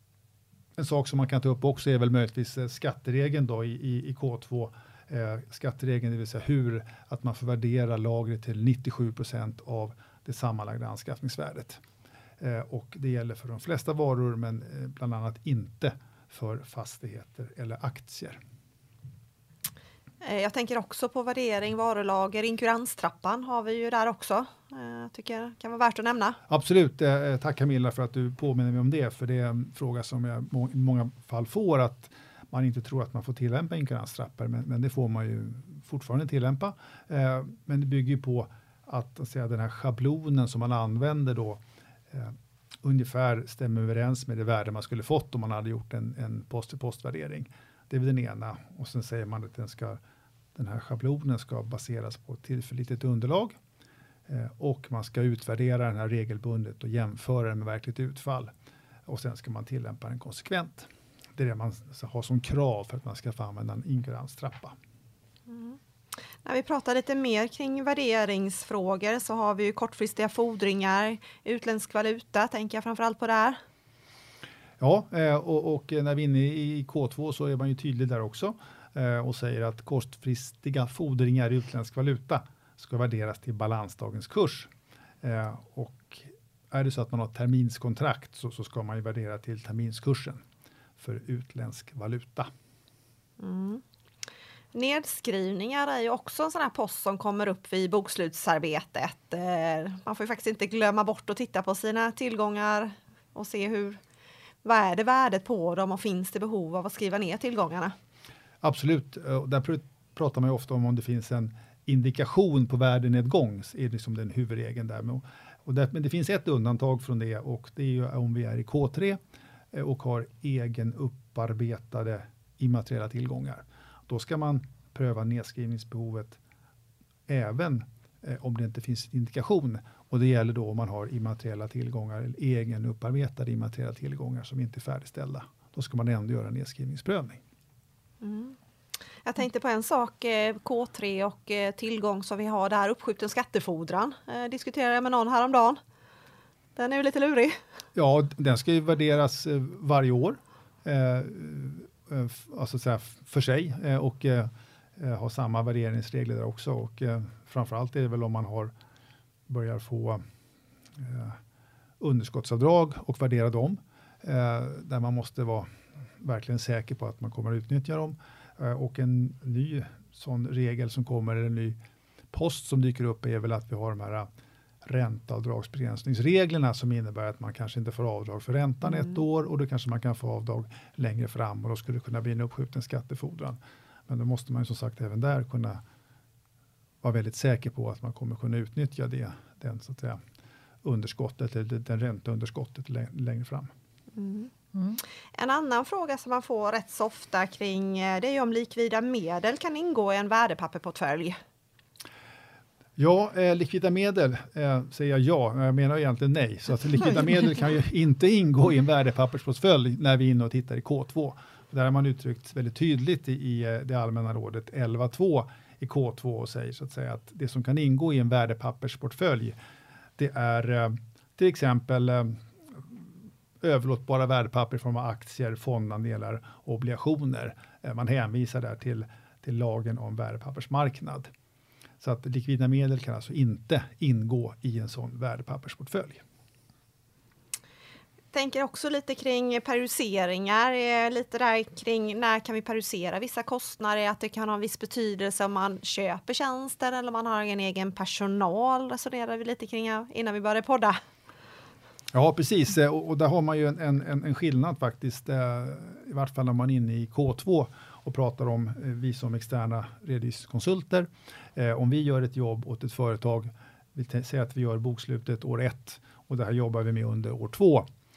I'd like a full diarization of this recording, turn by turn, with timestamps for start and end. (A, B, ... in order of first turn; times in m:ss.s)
0:00.8-0:11.8 A
0:12.4-0:18.4 A
0:20.2-0:26.4 B
0:26.5-0:50.0 A
0:50.5-0:53.6 A
0:54.3-0:58.5 A
0:59.0-1:04.7 A
1:05.5-1:05.8 B
1:06.4-1:13.6 B
1:14.8-1:24.7 A
1:25.2-1:30.4 A
1:31.0-1:32.5 A
1:33.4-1:33.8 B
1:34.7-1:44.0 B
1:44.6-1:47.9 B
1:48.6-1:59.2 A
1:59.7-2:06.4 A
2:07.3-2:17.4 A
2:18.2-2:18.6 B
2:19.2-2:25.8 B
2:26.8-2:27.6 B
2:27.9-2:38.7 A
2:39.5-2:40.2 A
2:40.9-2:41.4 A
2:42.0-2:51.8 A
2:52.3-2:54.3 A
2:54.8-3:05.8 A
3:07.0-3:10.2 A
3:10.8-3:13.7 A
3:14.1-3:14.5 B
3:15.3-3:21.4 B
3:23.0-3:39.6 A
3:40.2-3:43.0 A
3:43.6-3:51.3 A
3:52.0-3:56.2 A
3:58.3-4:11.0 B
4:12.1-4:27.9 A